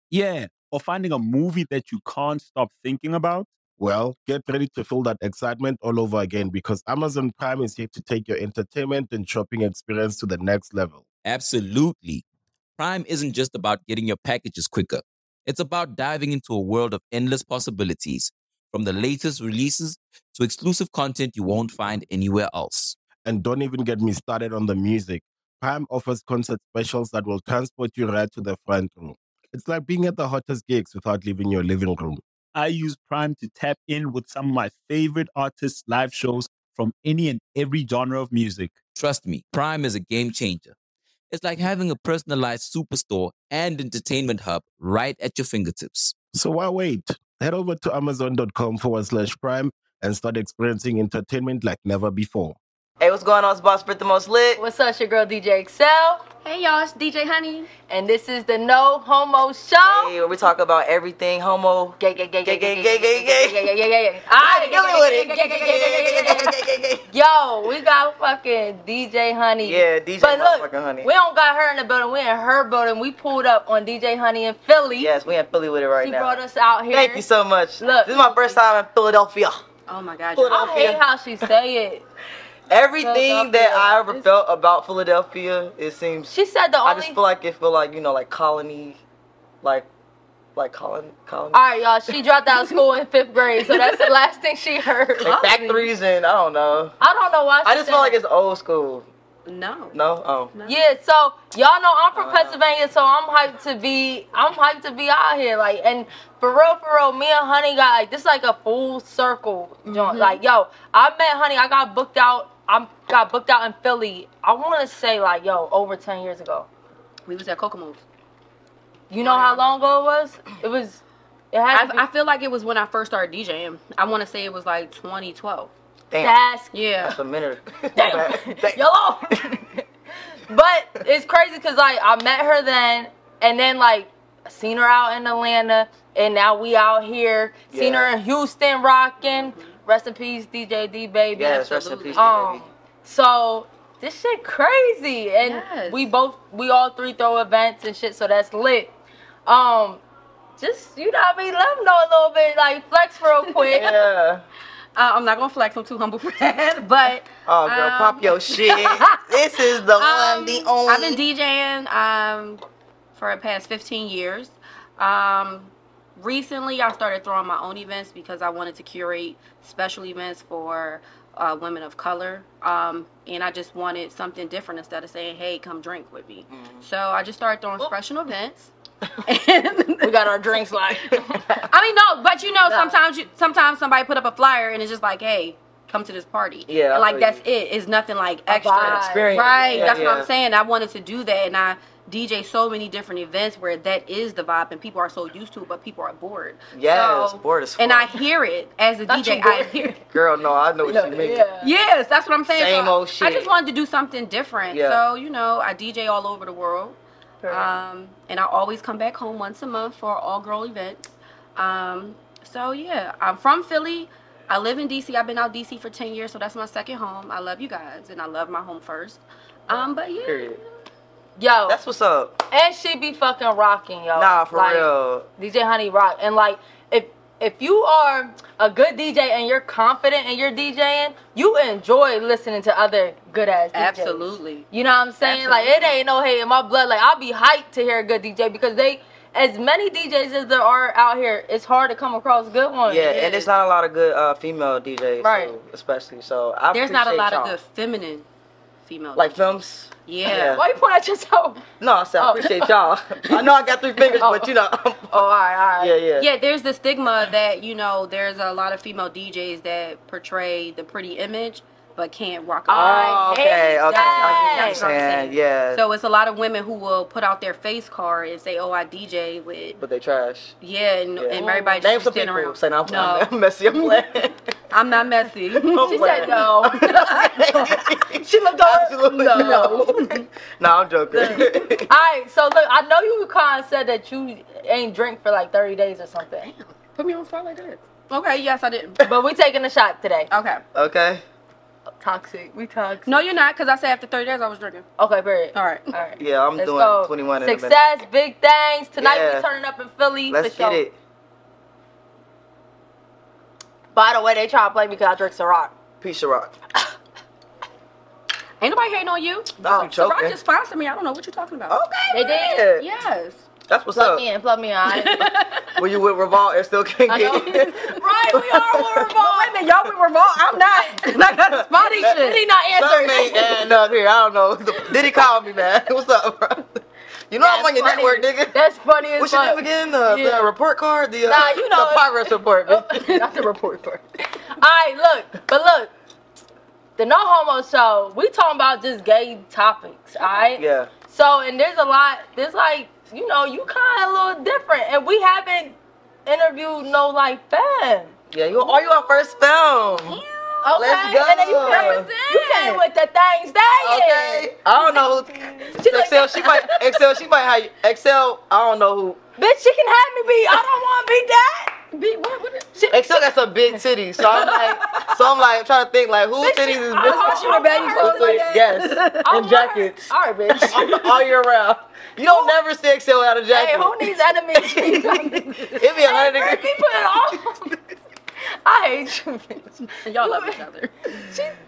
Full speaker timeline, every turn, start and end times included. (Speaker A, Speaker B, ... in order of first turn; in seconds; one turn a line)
Speaker A: 0.1-3.5
Speaker B: 3.8-11.0
Speaker C: 11.2-12.2
Speaker C: 12.8-23.0
Speaker B: 23.2-32.2
Speaker A: 32.5-38.8
Speaker C: 39.0-40.8
Speaker C: 41.3-46.1
Speaker B: 46.3-52.6
Speaker D: 53.0-54.6
Speaker E: 54.6-56.2
Speaker F: 56.4-57.7
Speaker E: 57.9-60.1
Speaker D: 59.9-63.6
Speaker E: 62.0-64.9
Speaker F: 64.3-66.5
Speaker D: 64.4-67.1
Speaker E: 65.7-66.5
Speaker E: 67.1-75.1
Speaker D: 69.6-71.1
Speaker D: 75.0-76.4
Speaker E: 76.0-77.2
Speaker D: 76.9-79.6
Speaker E: 77.8-78.6
Speaker F: 79.9-81.0
Speaker D: 80.3-81.0
Speaker E: 80.5-82.0
Speaker D: 82.7-89.0
Speaker E: 83.0-84.2
Speaker E: 86.3-87.2
Speaker D: 89.6-89.9
Speaker D: 90.6-91.6
Speaker E: 91.5-95.3
Speaker F: 93.7-94.0
Speaker D: 95.2-97.0
Speaker F: 95.2-95.9
Speaker E: 97.0-98.2
Speaker D: 97.7-99.1
Speaker F: 99.5-100.0
Speaker D: 99.9-100.5
Speaker F: 100.5-100.9
Speaker E: 100.7-116.7
Speaker D: 102.2-102.6
Speaker F: 109.9-110.4
Speaker F: 117.3-118.0
Speaker E: 119.1-121.0
Speaker F: 119.2-119.6
Speaker E: 121.5-122.0
Speaker F: 121.7-125.7
Speaker D: 126.1-126.4
Speaker E: 126.2-126.7
Speaker F: 126.7-127.2
Speaker D: 127.0-129.4
Speaker E: 128.0-129.8
Speaker E: 130.5-148.9
Speaker D: 137.7-138.1
Speaker F: 139.3-139.8
Speaker D: 141.3-142.6
Speaker F: 141.4-142.3
Speaker F: 145.4-146.1
Speaker E: 149.5-150.0
Speaker E: 150.6-153.9
Speaker F: 153.6-153.9
Speaker D: 153.7-154.4
Speaker F: 155.0-159.3
Speaker D: 157.5-161.2
Speaker F: 159.9-162.6
Speaker F: 163.2-178.7
Speaker D: 176.5-176.8
Speaker F: 179.2-180.2
Speaker E: 180.0-181.7
Speaker F: 181.7-199.9
Speaker E: 182.7-183.0
Speaker D: 186.7-187.4
Speaker E: 188.5-190.1
Speaker D: 188.8-190.3
Speaker D: 196.7-198.2
Speaker E: 199.1-200.0
Speaker D: 200.1-201.5
Speaker E: 200.9-201.7
Speaker F: 201.6-220.6
Speaker D: 202.5-203.5
Speaker D: 204.7-205.0
Speaker E: 207.4-207.7
Speaker D: 219.7-220.6
Speaker E: 221.4-221.8
Speaker D: 221.7-222.4
Speaker E: 222.5-243.2
Speaker D: 224.2-225.3
Speaker F: 233.7-234.7
Speaker F: 235.2-235.9
Speaker D: 242.9-247.6
Speaker F: 243.0-243.5
Speaker E: 245.2-245.6
Speaker F: 246.7-248.3
Speaker F: 248.9-249.5
Speaker D: 249.2-250.7
Speaker F: 250.1-250.6
Speaker E: 250.5-251.6
Speaker D: 251.8-255.2
Speaker E: 252.2-252.7
Speaker E: 254.2-254.5
Speaker E: 255.1-255.9
Speaker D: 255.8-256.3
Speaker F: 256.2-263.3
Speaker E: 262.7-264.9
Speaker D: 262.7-265.8
Speaker F: 263.9-269.8
Speaker D: 269.8-270.6
Speaker F: 270.6-273.3
Speaker D: 271.2-274.3
Speaker E: 271.4-271.8
Speaker F: 274.7-280.2
Speaker D: 275.5-281.9
Speaker E: 275.9-276.9
Speaker E: 278.2-279.9
Speaker E: 281.1-286.5
Speaker F: 281.2-281.8
Speaker F: 286.5-289.0
Speaker E: 289.0-290.3
Speaker F: 290.3-290.6
Speaker D: 290.8-291.2
Speaker E: 292.0-293.2
Speaker F: 293.1-294.9
Speaker E: 295.0-300.8
Speaker F: 295.5-295.9
Speaker D: 296.2-297.8
Speaker D: 299.0-299.5
Speaker D: 300.3-300.9
Speaker E: 303.9-305.7
Speaker D: 306.0-306.6
Speaker F: 308.6-313.4
Speaker D: 309.6-310.4
Speaker D: 311.7-312.9
Speaker E: 312.1-312.6
Speaker D: 313.7-314.2
Speaker E: 313.9-315.3
Speaker F: 314.9-315.9
Speaker D: 315.8-319.1
Speaker E: 317.1-319.6
Speaker F: 317.2-317.9
Speaker F: 319.2-322.4
Speaker D: 321.2-328.6
Speaker E: 321.8-323.7
Speaker F: 327.4-328.1
Speaker E: 327.4-329.6
Speaker D: 329.2-333.1
Speaker F: 330.1-330.4
Speaker E: 331.3-335.9
Speaker E: 337.0-348.1
Speaker D: 340.6-340.9
Speaker D: 348.3-350.2
Speaker F: 348.7-349.2
Speaker F: 349.9-352.8
Speaker E: 350.6-354.5
Speaker D: 350.8-352.1
Speaker D: 353.8-359.2
Speaker E: 355.8-356.8
Speaker E: 359.4-361.8
Speaker F: 361.9-362.8
Speaker E: 362.8-363.8
Speaker D: 362.9-374.1
Speaker F: 364.3-365.2
Speaker E: 366.4-368.4
Speaker F: 367.0-369.4
Speaker E: 369.2-371.0
Speaker F: 370.5-371.0
Speaker E: 373.5-377.8
Speaker F: 374.8-375.4
Speaker D: 375.7-376.8
Speaker E: 378.6-380.6
Speaker F: 380.0-381.1
Speaker E: 381.1-381.6